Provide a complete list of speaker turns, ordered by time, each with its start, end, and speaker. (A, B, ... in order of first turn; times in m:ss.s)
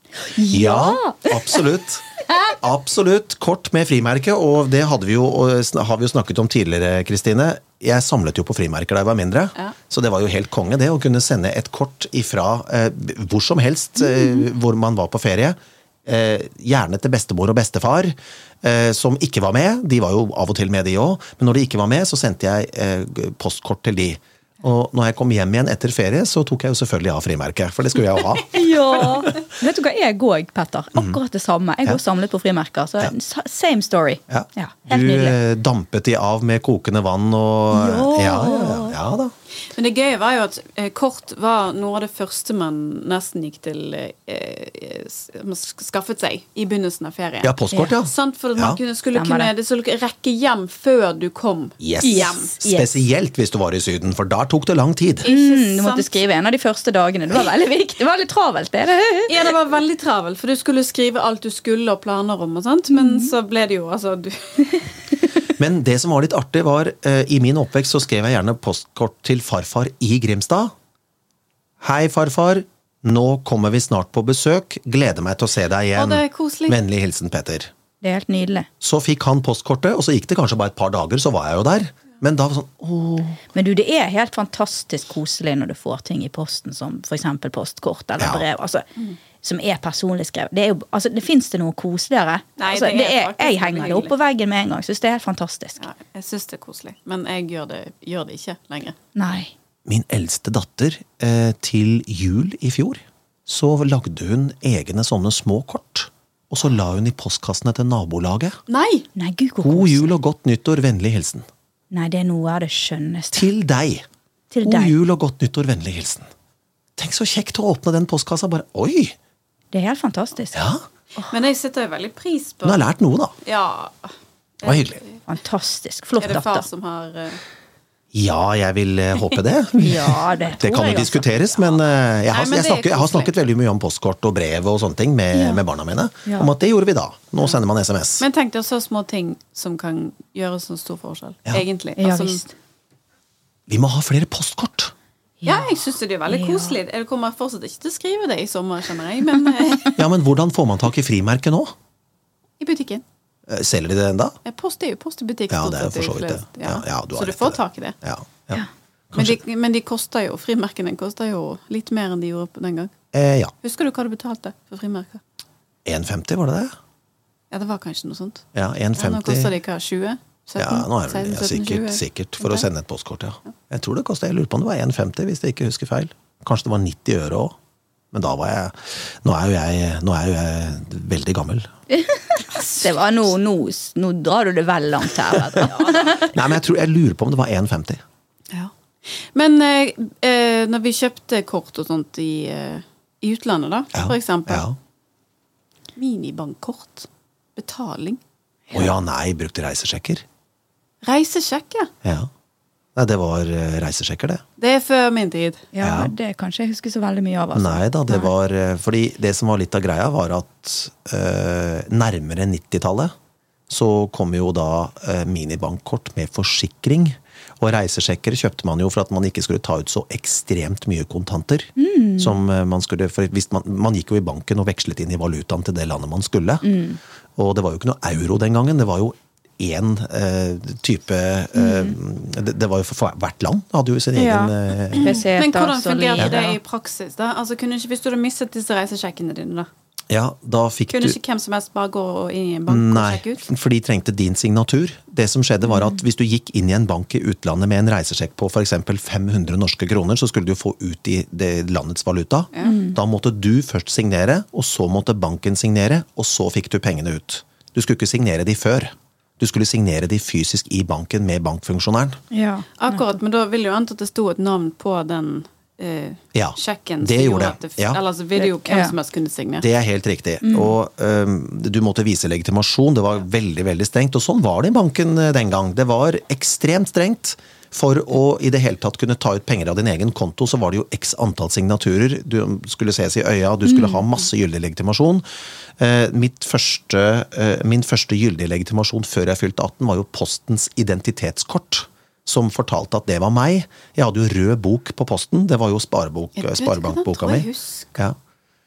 0:00.3-0:01.6 A
0:00.5-0:29.3 B
0:02.3-0:02.6 A
0:28.5-0:35.4 A
0:34.3-0:39.3 B
0:37.7-0:39.0 A
0:39.7-0:52.5 C
0:47.4-0:48.8 B
0:49.1-0:49.5 A
0:51.8-0:55.3 B
0:52.0-0:52.9 A
0:55.2-0:56.2 C
0:55.3-0:59.5 A
0:59.3-1:04.8 C
1:02.9-1:03.3 A
1:05.6-1:10.7 B
1:11.8-1:17.7 B
1:16.0-1:16.8 C
1:18.0-1:18.7 A
1:18.8-1:23.4 B
1:23.5-1:28.9 A
1:29.4-1:35.8 A
1:32.6-1:34.1 C
1:35.8-1:39.0 C
1:39.2-1:39.5 A
1:39.9-1:48.6 B
1:48.7-1:49.1 C
1:49.2-1:50.1 A
1:49.6-1:51.5 B
1:51.9-1:53.5 A
1:53.3-1:54.1 B
1:54.5-1:55.0 A
1:54.6-1:56.3 B
1:57.0-1:59.2 B
1:59.7-2:01.3 A
2:00.5-2:00.8 B
2:01.3-2:02.9 C
2:02.6-2:03.3 B
2:03.4-2:05.2 C
2:04.6-2:05.0 B
2:05.3-2:06.7 A
2:06.2-2:07.4 C
2:08.1-2:18.3 B
2:09.8-2:11.3 A
2:12.3-2:13.4 C
2:15.3-2:15.6 A
2:18.2-2:22.4 C
2:22.0-2:22.5 A
2:23.7-2:24.9 B
2:25.4-2:25.7 A
2:25.4-2:30.0 C
2:26.3-2:26.8 A
2:30.0-2:31.7 B
2:32.6-2:33.0 C
2:33.5-2:34.4 B
2:34.4-2:38.0 C
2:35.5-2:39.4 B
2:39.2-2:42.9 C
2:43.1-2:43.5 B
2:43.6-2:45.2 C
2:45.8-2:46.8 B
2:47.5-2:52.0 C
2:48.6-2:49.5 B
2:50.6-2:57.6 B
2:58.1-3:01.7 B
3:01.9-3:06.4 A
3:05.3-3:08.0 B
3:08.5-3:14.7 C
3:14.0-3:14.8 B
3:16.0-3:18.2 C
3:18.7-3:20.2 B
3:21.0-3:21.9 C
3:22.0-3:22.3 B
3:23.0-3:24.4 B
3:24.6-3:25.7 C
3:25.7-3:28.3 A
3:25.8-3:26.1 B
3:27.6-3:33.1 B
3:33.7-3:46.7 B
3:41.8-3:42.4 A
3:46.6-3:47.0 A
3:47.4-3:55.2 B
3:51.6-3:52.0 A
3:54.2-3:56.6 A
3:55.0-3:59.7 C
4:00.1-4:01.2 B
4:00.9-4:03.5 C
4:02.7-4:22.2 B
4:12.5-4:12.8 C
4:12.6-4:13.0 A
4:22.3-4:23.1 A
4:22.8-4:29.7 C
4:26.3-4:28.0 B
4:28.4-4:28.9 A
4:29.6-4:45.2 B
4:30.4-4:30.7 A
4:43.6-4:44.0 A
4:45.8-4:58.2 B
4:56.4-4:58.0 C